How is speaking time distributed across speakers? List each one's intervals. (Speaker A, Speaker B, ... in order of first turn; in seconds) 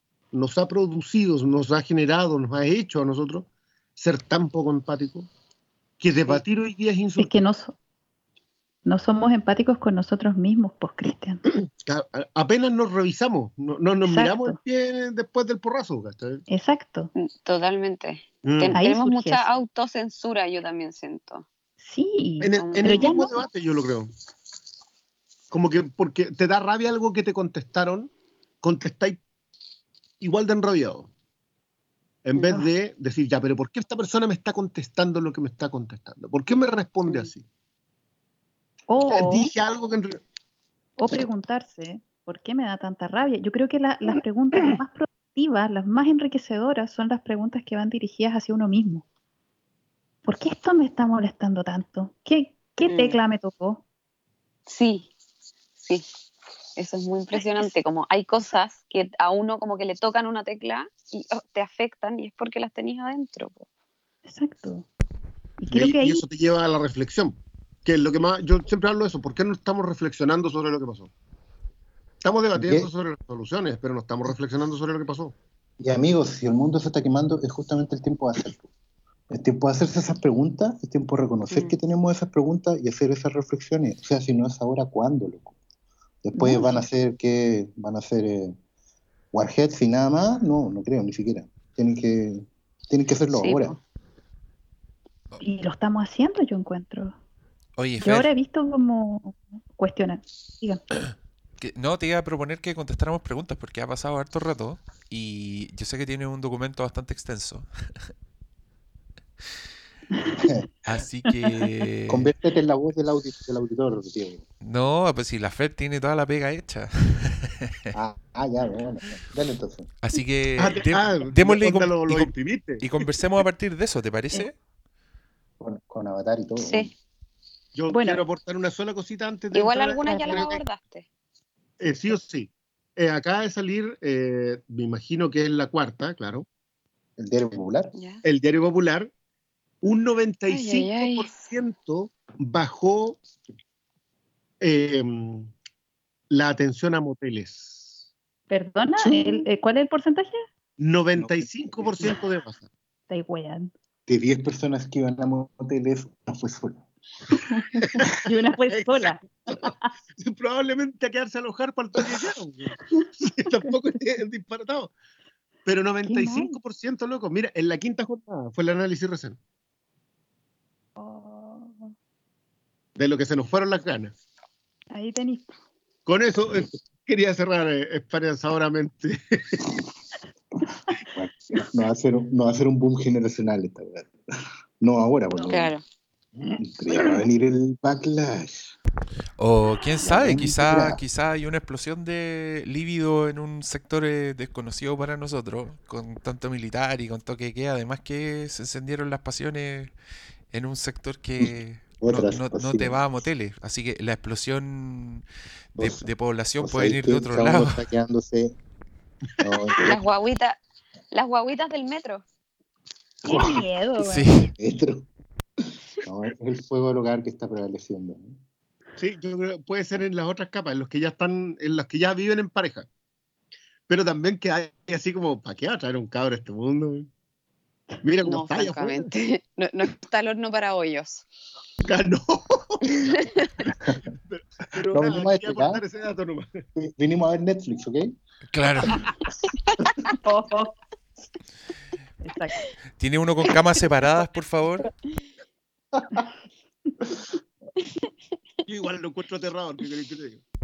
Speaker A: 0.3-5.3, 6.0-7.3, 11.5-16.4, 18.4-18.8, 22.4-24.1, 25.5-28.1, 28.6-29.2, 30.2-31.1, 32.2-37.4, 39.1-40.2, 65.7-71.1, 72.2-75.3, 120.6-122.9, 127.7-130.6, 131.8-136.4, 138.2-139.1, 139.8-143.2, 144.6-145.5, 146.3-148.0, 150.8-152.7, 157.8-159.6, 160.2-164.9, 165.6-169.4, 173.0-174.1, 176.1-179.6, 219.0-222.9, 223.9-227.1, 228.0-229.1, 231.8-233.7, 234.3-236.6, 248.7-250.4
Speaker B: 7.2-7.8, 8.8-11.4, 14.0-14.6, 16.5-17.1, 18.7-19.4, 21.8-23.3, 32.4-32.7, 38.9-39.5, 41.0-49.0, 50.2-53.8, 64.2-64.9, 65.6-66.2, 86.3-86.8, 95.4-97.1, 98.0-100.8, 110.2-110.5, 111.2-111.7, 127.9-128.2, 130.1-130.4, 148.5-150.4, 153.1-153.7, 157.3-159.8, 166.1-166.6, 171.0-171.9, 174.9-175.5, 185.3-185.6, 213.3-214.2, 240.0-240.8, 242.2-242.6
Speaker C: 17.1-21.5, 22.5-23.1, 52.9-53.2, 54.6-55.1, 55.8-56.0, 56.8-63.7, 81.5-81.8, 93.3-93.7, 126.6-126.9, 129.5-131.1, 137.9-138.2, 140.5-141.3, 185.5-185.8, 209.8-210.6, 211.1-212.2, 228.2-231.2, 233.1-233.5
Speaker D: 72.5-72.9, 75.8-78.7, 79.3-85.5, 86.2-88.5, 89.3-93.8, 112.1-114.4, 117.9-119.9, 125.6-126.9, 137.2-137.9, 151.2-152.1, 154.1-156.9, 181.1-184.1, 184.8-185.7, 186.6-188.7, 190.1-191.0, 202.0-203.0, 205.8-208.5, 209.4-210.0, 213.2-213.6, 214.6-215.1, 216.0-218.4, 234.9-235.8, 236.8-238.1, 245.9-246.3
Speaker E: 97.8-98.3, 101.6-108.1, 110.8-112.3, 114.6-117.7, 120.0-124.5, 189.4-199.9, 200.5-205.2, 205.7-207.8, 214.0-214.5, 238.5-239.0, 243.0-244.9